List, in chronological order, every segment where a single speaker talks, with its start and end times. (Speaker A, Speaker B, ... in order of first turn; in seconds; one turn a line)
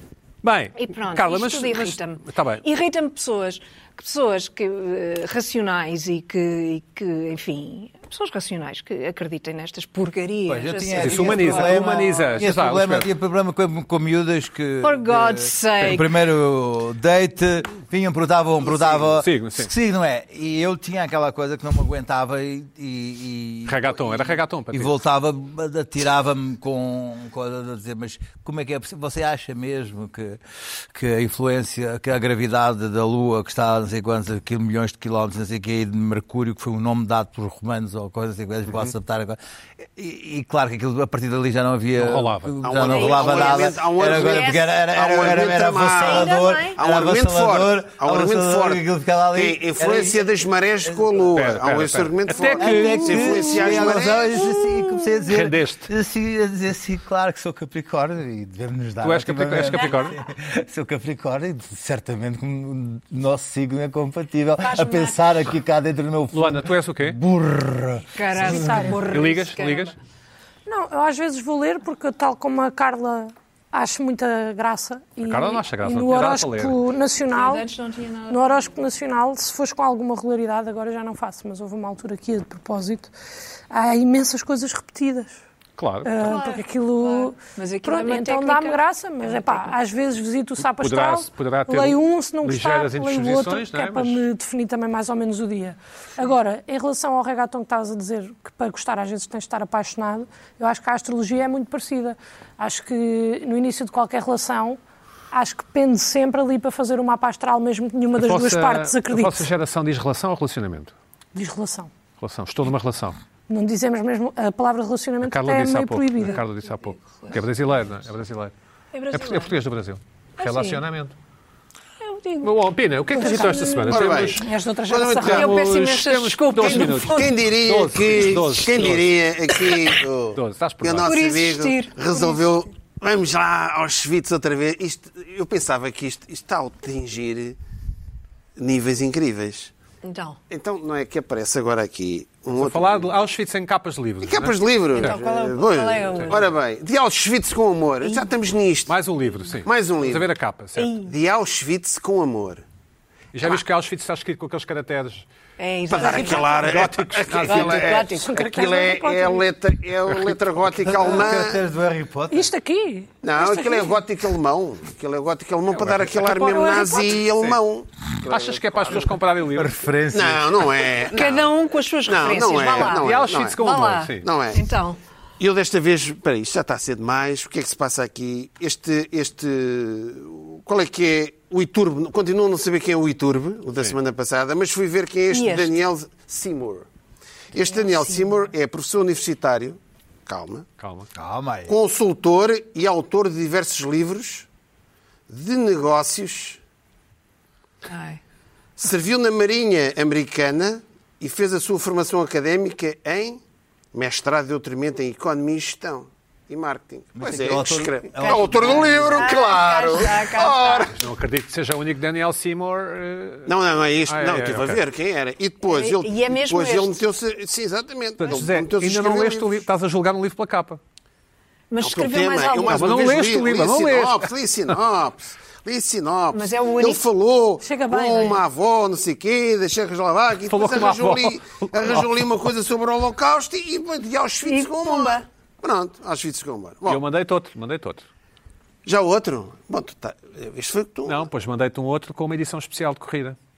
Speaker A: 0.4-2.6
Speaker B: 0.8-12.4
Speaker C: 10.5-39.4
Speaker A: 11.0-13.1
Speaker B: 14.8-16.1
Speaker A: 19.1-19.7
Speaker A: 23.6-24.9
Speaker C: 39.9-50.2
Speaker A: 42.0-42.5
Speaker D: 42.6-54.4
Speaker B: 42.8-44.7
Speaker B: 45.3-46.8
Speaker C: 50.8-51.3
Speaker A: 51.3-53.8
Speaker C: 52.5-68.9
Speaker B: 54.3-55.2
Speaker A: 55.3-55.9
Speaker A: 59.0-60.1
Speaker B: 64.6-65.3
Speaker A: 66.3-67.2
Speaker B: 68.2-69.9
Speaker E: 68.5-69.0
Speaker A: 69.0-69.9
Speaker E: 70.7-77.6
Speaker A: 75.2-76.8
Speaker B: 77.3-78.8
Speaker E: 78.3-83.1
Speaker E: 83.7-85.3
Speaker A: 85.8-86.3
Speaker E: 86.0-104.8
Speaker B: 86.2-89.7
Speaker A: 90.6-94.2
Speaker E: 105.3-109.5
Speaker A: 108.2-110.9
Speaker E: 111.3-111.9
Speaker A: 112.2-113.2
Speaker E: 113.5-116.4
Speaker A: 115.2-118.5
Speaker B: 118.9-119.5
Speaker A: 119.1-121.1
Speaker B: 120.4-120.8
Speaker B: 122.0-122.5
Speaker A: 122.4-124.4
Speaker E: 123.1-125.5
Speaker B: 123.2-124.2
Speaker D: 123.9-125.5
Speaker B: 125.0-127.3
Speaker A: 125.2-129.1
Speaker D: 126.6-137.6
Speaker A: 130.3-131.2
Speaker B: 131.0-132.4
Speaker D: 138.6-139.7
Speaker B: 140.0-140.4
Speaker D: 140.5-143.1
Speaker A: 142.5-145.2
Speaker D: 144.2-148.9
Speaker B: 144.9-146.5
Speaker A: 146.1-146.4
Speaker B: 148.0-148.3
Speaker A: 148.9-150.9
Speaker D: 149.6-150.3
Speaker B: 150.8-151.1
Speaker D: 151.0-152.6
Speaker A: 153.3-155.2
Speaker B: 155.6-156.8
Speaker D: 155.9-161.6
Speaker A: 156.1-157.9
Speaker B: 157.4-158.4
Speaker E: 157.8-159.4
Speaker A: 160.1-160.3
Speaker C: 160.8-162.5
Speaker E: 162.3-163.9
Speaker D: 163.2-169.0
Speaker A: 165.8-166.3
Speaker E: 166.3-167.1
Speaker A: 168.2-169.9
Speaker C: 169.5-170.8
Speaker D: 170.1-171.5
Speaker B: 171.1-175.0
Speaker D: 172.1-173.6
Speaker A: 172.7-174.3
Speaker D: 174.2-174.6
Speaker D: 175.4-186.8
Speaker B: 185.3-185.7
Speaker D: 187.5-190.7
Speaker B: 187.6-188.3
Speaker A: 190.8-191.1
Speaker C: 191.1-191.8
Speaker D: 191.7-194.5
Speaker D: 195.3-196.6
Speaker B: 197.8-198.2
Speaker D: 198.8-203.4
Speaker D: 203.9-210.9
Speaker C: 207.2-209.5
Speaker B: 208.2-210.9
Speaker A: 210.9-213.5
Speaker D: 213.4-219.6
Speaker A: 214.1-214.8
Speaker B: 215.6-217.0
Speaker A: 218.2-220.8
Speaker B: 221.7-223.2
Speaker D: 221.8-237.0
Speaker A: 222.7-224.7
Speaker B: 226.3-227.0
Speaker E: 227.6-228.4
Speaker A: 230.5-232.3
Speaker B: 234.4-235.2
Speaker A: 236.8-238.1
Speaker D: 238.8-241.2
Speaker A: 241.0-243.4